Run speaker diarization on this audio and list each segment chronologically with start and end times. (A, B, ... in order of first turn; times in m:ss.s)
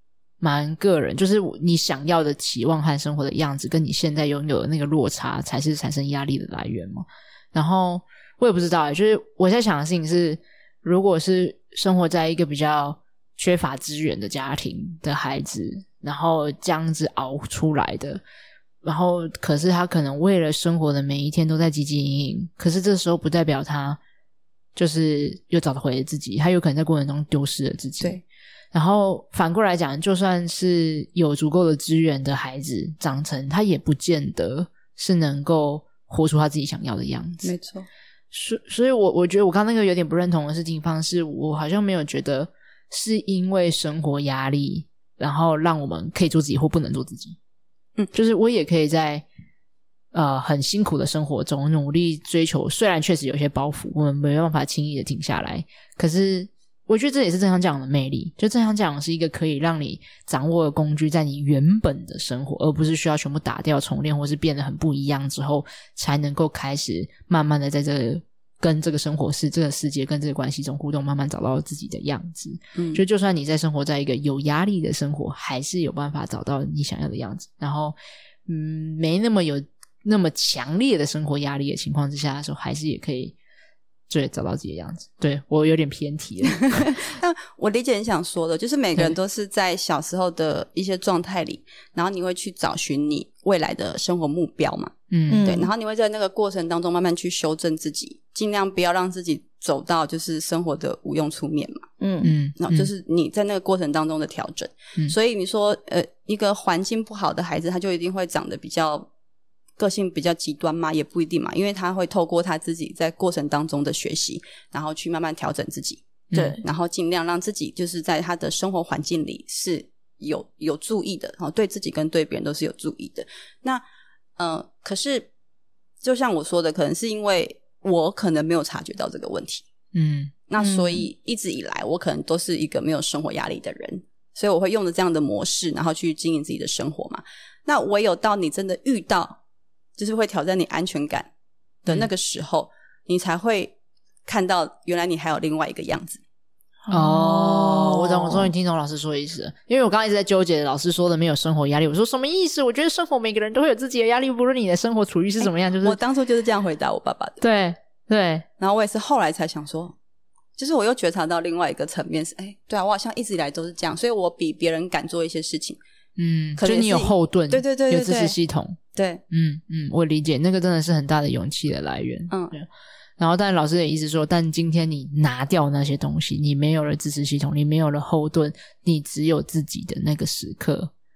0:00.4-0:18.2 A
0:18.8-0:24.0 A
0:24.7-0:28.2 A
0:28.7-0:37.5 A
0:37.4-0:37.9 B
0:38.3-0:47.4 A
0:48.1-0:49.2 A
0:50.1-1:23.4 A
1:12.8-1:13.0 B
1:24.1-1:27.0 A
1:26.4-1:41.8 B
1:35.1-1:35.5 A
1:35.3-1:35.7 C
1:42.0-1:42.3 C
1:42.2-1:42.9 A
1:42.6-1:49.1 B
1:49.8-1:56.0 B
1:56.3-1:56.6 A
1:56.3-1:56.6 C
1:56.6-2:03.8 B
2:04.4-2:05.3 B
2:06.0-2:09.6 B
2:09.9-2:10.3 A
2:10.5-2:19.4 B
2:10.6-2:11.0 C
2:20.0-2:21.3 B
2:21.8-2:23.7 B
2:24.2-2:26.2 B
2:26.8-2:28.5 C
2:26.9-2:36.0 A
2:35.4-2:37.4 B
2:37.4-2:38.4 A
2:38.6-2:39.9 B
2:40.6-2:45.8 B
2:46.2-2:48.8 A
2:46.6-2:48.4 B
2:48.9-2:49.2 B
2:49.3-2:52.7 A
2:53.2-3:00.9 A